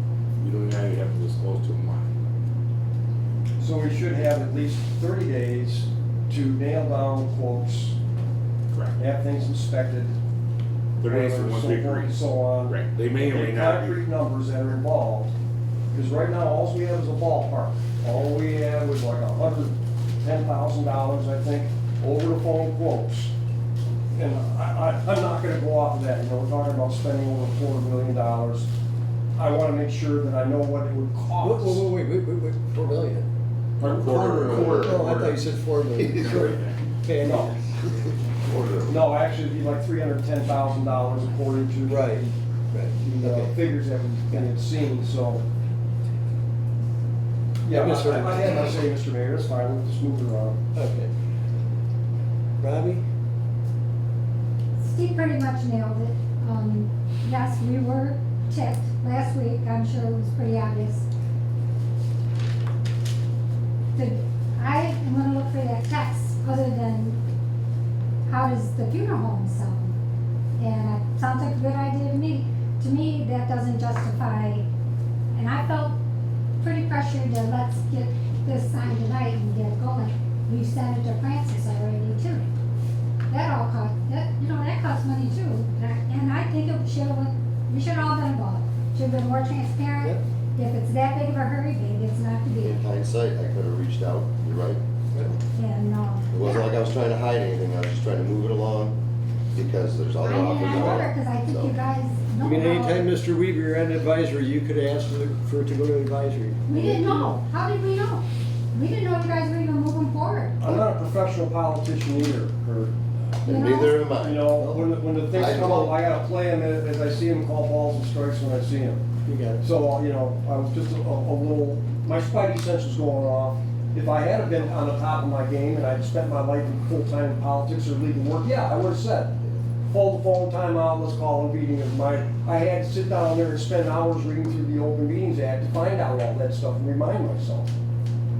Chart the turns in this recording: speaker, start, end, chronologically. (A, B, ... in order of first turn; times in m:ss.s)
0:00.4-0:02.1 A
0:03.6-0:08.0 B
0:08.7-0:09.0 A
0:09.0-0:10.2 B
0:11.0-0:14.0 A
0:11.0-0:15.3 B
0:15.9-0:23.3 B
0:24.1-0:28.7 B
0:29.4-0:31.8 B
0:31.4-0:33.3 C
0:33.8-0:35.4 A
0:33.8-0:34.9 D
0:34.4-0:37.6 C
0:36.0-0:36.4 D
0:36.1-0:36.8 A
0:37.2-0:37.5 B
0:38.4-0:39.1 D
0:38.9-0:42.3 B
0:41.9-0:42.2 C
0:42.7-0:43.6 C
0:43.0-0:45.4 B
0:47.6-0:50.6 B
0:47.7-0:48.8 C
0:50.7-0:51.1 C
0:52.6-0:53.0 C
0:54.8-1:01.0 E
1:03.9-1:07.2 E
1:08.3-1:09.9 E
1:10.6-1:14.6 E
1:15.3-1:15.9 E
1:16.6-1:22.5 E
1:23.3-1:32.8 E
1:32.6-1:35.3 D
1:35.5-1:36.7 E
1:36.3-1:39.0 D
1:39.5-1:41.7 D
1:40.2-1:43.1 E
1:40.8-1:41.0 C
1:42.4-1:46.6 C
1:46.6-1:50.6 E
1:50.6-1:52.9 B
1:53.4-1:54.6 D
1:53.4-1:54.1 E
1:54.1-1:59.0 B
1:54.6-1:54.9 C
1:55.3-1:56.0 D
1:59.2-1:59.7 C
1:59.6-2:17.7 B